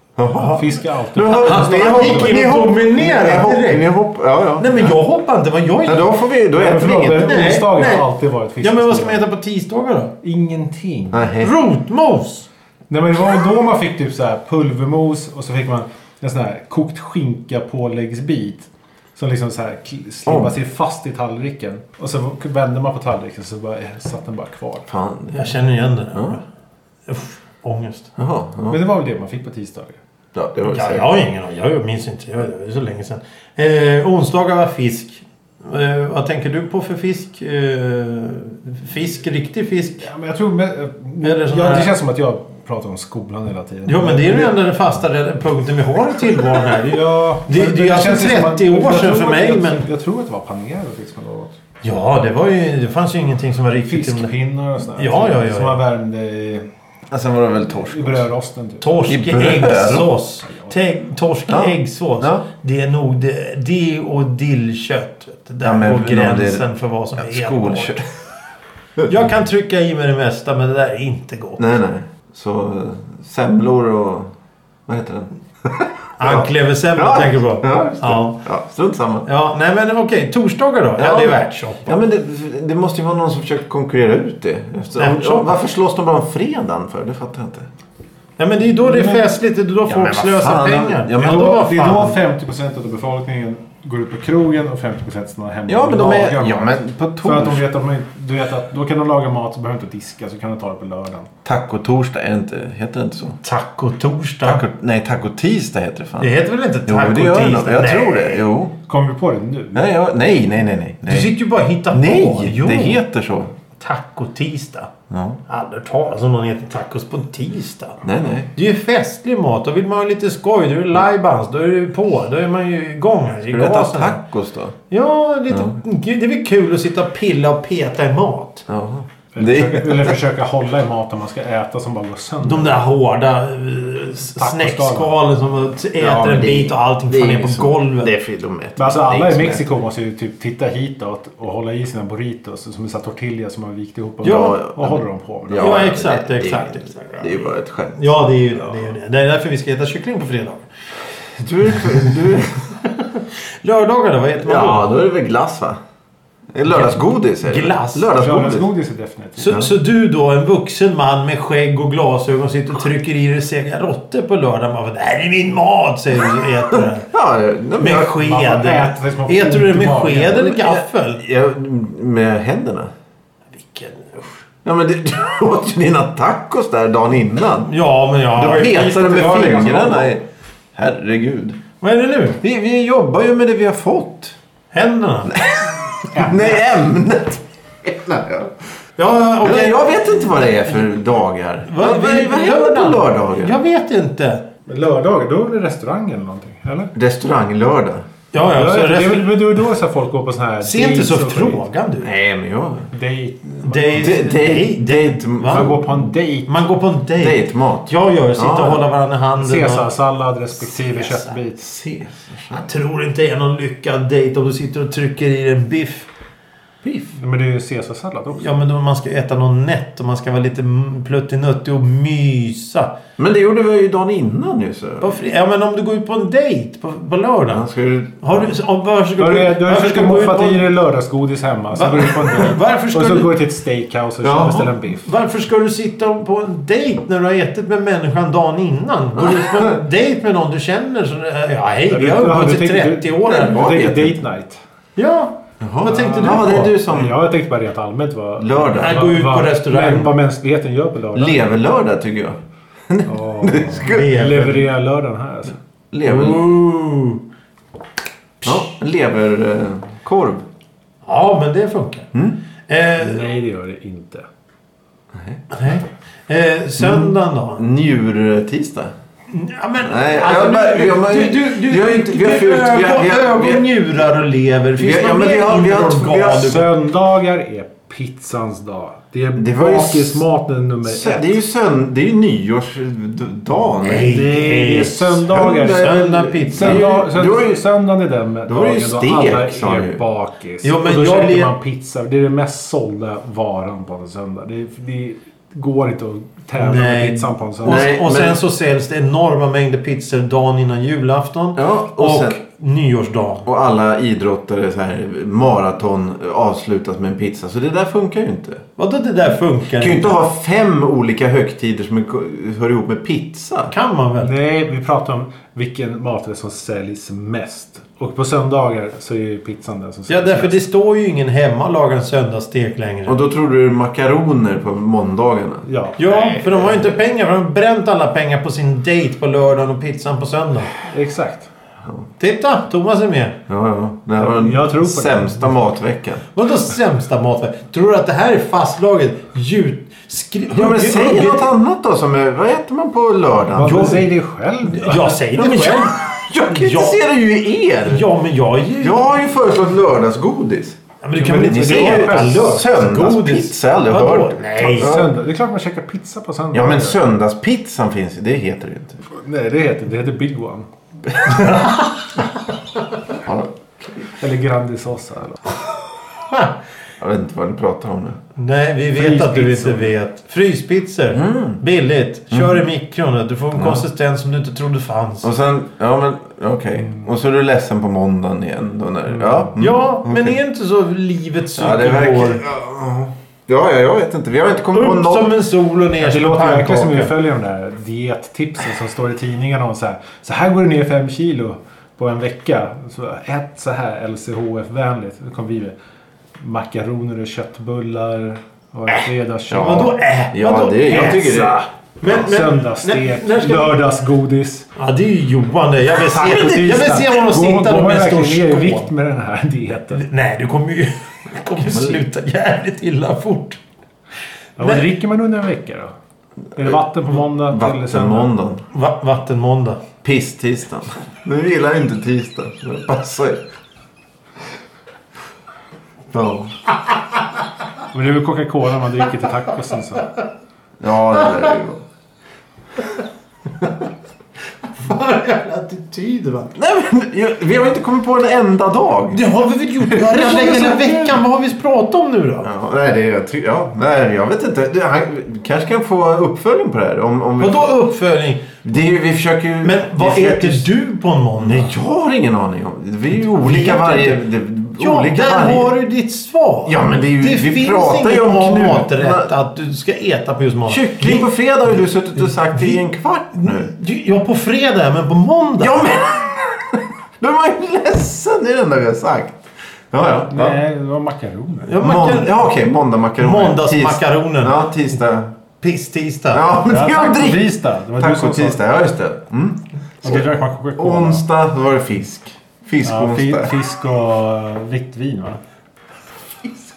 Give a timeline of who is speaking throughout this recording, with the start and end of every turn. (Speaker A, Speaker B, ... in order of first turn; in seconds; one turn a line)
Speaker A: 0.2-5.0
Speaker B: 0.3-0.7
Speaker C: 0.4-2.4
Speaker B: 1.3-3.9
Speaker B: 4.6-6.1
Speaker A: 5.9-7.5
Speaker C: 6.5-9.2
Speaker B: 6.9-8.1
Speaker B: 8.6-10.1
Speaker C: 10.2-11.3
Speaker A: 11.1-11.5
Speaker B: 11.4-12.5
Speaker C: 12.9-24.9
Speaker A: 20.2-20.5
Speaker A: 24.9-25.5
Speaker B: 25.3-26.4
Speaker A: 26.1-26.4
Speaker B: 27.1-28.1
Speaker A: 28.2-28.8
Speaker C: 28.7-30.0
Speaker A: 30.3-31.1
Speaker B: 30.6-40.1
Speaker C: 40.0-44.6
Speaker B: 41.2-41.9
Speaker B: 43.9-49.8
Speaker C: 46.8-51.5
Speaker B: 51.8-54.3
Speaker C: 53.9-56.7
Speaker B: 54.9-55.8
Speaker A: 57.1-58.3
Speaker C: 57.8-59.0
Speaker B: 58.8-68.0
Speaker A: 59.1-60.1
Speaker C: 60.5-60.7
Speaker A: 61.5-62.5
Speaker A: 65.6-66.6
Speaker A: 67.2-68.0
Speaker B: 69.1-71.6
Speaker A: 71.6-74.3
Speaker A: 74.9-79.3
Speaker B: 76.2-78.4
Speaker B: 79.2-81.9
Speaker A: 81.0-87.7
Speaker B: 85.0-85.5
Speaker B: 88.4-92.2
Speaker C: 88.8-89.2
Speaker A: 89.9-91.6
Speaker C: 91.2-101.3
Speaker A: 95.7-97.6
Speaker A: 101.4-103.4
Speaker B: 103.4-104.6
Speaker A: 104.4-106.3
Speaker B: 106.2-108.4
Speaker A: 106.9-108.8
Speaker C: 108.9-109.9
Speaker A: 109.7-111.3
Speaker B: 111.1-113.0
Speaker A: 111.9-113.5
Speaker B: 113.8-114.9
Speaker A: 115.1-115.4
Speaker B: 115.5-124.2
Speaker A: 118.0-118.5
Speaker A: 123.5-124.8
Speaker B: 124.9-128.7
Speaker A: 125.5-125.8
Speaker A: 128.7-130.2
Speaker C: 129.3-132.8
Speaker B: 132.4-138.1
Speaker C: 134.3-135.2
Speaker A: 136.0-139.6
Speaker C: 138.8-145.8
Speaker B: 144.2-144.6
Speaker A: 144.2-148.2
Speaker B: 145.5-150.7
Speaker A: 151.4-152.7
Speaker B: 151.8-152.1
Speaker B: 153.1-154.9
Speaker A: 154.4-155.8
Speaker A: 156.5-158.7
Speaker B: 156.7-158.1
Speaker C: 158.1-159.5
Speaker B: 159.4-167.1
Speaker A: 159.4-159.7
Speaker A: 166.7-168.2
Speaker B: 167.8-171.2
Speaker C: 168.1-170.5
Speaker A: 170.5-172.9
Speaker B: 173.5-174.4
Speaker A: 174.6-177.7
Speaker B: 177.7-179.9
Speaker A: 178.3-181.6
Speaker C: 178.8-180.1
Speaker B: 181.8-182.4
Speaker A: 182.4-184.4
Speaker B: 184.7-185.3
Speaker A: 185.3-188.5
Speaker C: 186.1-186.6
Speaker B: 189.0-190.5
Speaker A: 189.4-193.6
Speaker B: 191.7-194.4
Speaker C: 194.7-196.9
Speaker A: 196.9-198.1
Speaker B: 198.3-199.5
Speaker C: 198.4-201.6
Speaker B: 200.6-202.1
Speaker A: 202.0-202.9
Speaker C: 202.9-204.3
Speaker B: 203.6-205.8
Speaker A: 203.9-206.0
Speaker C: 205.4-206.6
Speaker B: 206.5-209.9
Speaker A: 207.2-208.8
Speaker C: 209.4-211.7
Speaker B: 210.6-211.3
Speaker A: 211.6-212.7
Speaker B: 212.6-216.1
Speaker C: 216.8-218.5
Speaker B: 218.4-222.9
Speaker A: 223.2-225.2
Speaker B: 225.0-227.7
Speaker A: 227.5-228.5
Speaker B: 228.2-230.7
Speaker C: 229.2-235.1
Speaker B: 231.7-233.4
Speaker A: 234.2-234.7
Speaker B: 235.0-243.6
Speaker A: 239.2-239.7
Speaker C: 241.9-244.6
Speaker A: 243.2-244.2
Speaker B: 244.9-246.7
Speaker A: 245.6-247.2
Speaker C: 245.8-251.5
Speaker A: 248.4-249.0
Speaker B: 248.8-250.1
Speaker A: 251.1-254.1
Speaker C: 253.0-255.6
Speaker B: 253.8-254.7
Speaker A: 255.9-256.5
Speaker B: 256.0-257.2
Speaker A: 258.4-260.4
Speaker B: 261.0-262.1
Speaker B: 262.7-263.2
Speaker C: 263.0-264.2
Speaker A: 265.1-265.4
Speaker B: 265.5-267.6
Speaker A: 266.8-268.9
Speaker B: 269.3-276.7
Speaker A: 269.8-273.6
Speaker A: 274.8-276.6
Speaker C: 276.3-281.3
Speaker A: 279.4-280.2
Speaker A: 280.8-284.3
Speaker B: 283.8-286.9
Speaker C: 284.0-297.9
Speaker A: 285.3-287.6
Speaker A: 288.5-290.0
Speaker B: 290.6-291.5
Speaker B: 296.6-303.4
Speaker A: 297.6-298.4
Speaker A: 301.6-302.4
Speaker A: 303.4-308.6
Speaker B: 308.8-310.1
Speaker A: 309.8-313.7
Speaker B: 313.7-314.3
Speaker C: 314.2-320.6
Speaker B: 320.1-323.2
Speaker A: 323.1-326.9
Speaker C: 325.6-326.4
Speaker B: 326.0-330.7
Speaker C: 330.8-331.5
Speaker B: 332.2-333.4
Speaker A: 333.5-336.2
Speaker C: 334.2-335.5
Speaker B: 336.3-341.5
Speaker A: 340.5-344.0
Speaker C: 343.5-345.6
Speaker B: 343.6-344.1
Speaker B: 344.6-347.0
Speaker A: 345.4-348.1
Speaker B: 347.8-349.1
Speaker A: 348.8-350.8
Speaker B: 351.0-355.0
Speaker C: 351.1-352.6
Speaker A: 351.5-355.1
Speaker C: 354.6-357.0
Speaker A: 356.5-359.0
Speaker C: 359.1-360.7
Speaker B: 361.2-362.1
Speaker A: 363.1-364.1
Speaker C: 364.2-365.6
Speaker B: 366.3-366.5
Speaker A: 367.0-368.2
Speaker B: 368.4-375.3
Speaker C: 368.9-369.9
Speaker A: 371.1-371.6
Speaker A: 372.3-372.6
Speaker A: 373.5-373.8
Speaker A: 375.2-380.4
Speaker C: 379.1-379.5
Speaker B: 379.6-382.4
Speaker A: 381.6-385.3
Speaker B: 384.7-387.1
Speaker C: 386.0-395.8
Speaker C: 396.4-399.9
Speaker A: 399.5-401.6
Speaker B: 399.5-403.8
Speaker C: 400.9-401.5
Speaker C: 402.0-404.7
Speaker B: 404.8-408.9
Speaker C: 406.0-410.0
Speaker B: 409.9-413.6
Speaker A: 411.6-412.0
Speaker C: 414.6-415.9
Speaker C: 416.6-418.3
Speaker A: 417.3-418.6
Speaker B: 418.7-419.8
Speaker A: 420.0-423.4
Speaker A: 426.1-426.5
Speaker C: 427.9-430.1
Speaker A: 430.8-431.8
Speaker B: 434.8-436.5
Speaker A: 436.5-439.2
Speaker B: 439.1-442.5
Speaker A: 439.8-441.2
Speaker A: 442.4-447.7
Speaker B: 447.4-448.5
Speaker A: 448.6-450.7
Speaker B: 449.6-451.7
Speaker A: 451.4-455.7
Speaker B: 453.2-454.2
Speaker B: 454.8-461.3
Speaker A: 456.6-459.3
Speaker A: 460.7-463.7
Speaker B: 462.2-462.8
Speaker B: 463.3-465.9
Speaker A: 465.6-470.6
Speaker C: 470.2-471.8
Speaker B: 471.7-472.5
Speaker A: 471.8-475.3
Speaker B: 473.2-474.6
Speaker B: 475.6-476.4
Speaker A: 476.3-483.5
Speaker C: 476.6-478.6
Speaker C: 480.0-481.2
Speaker C: 482.8-485.4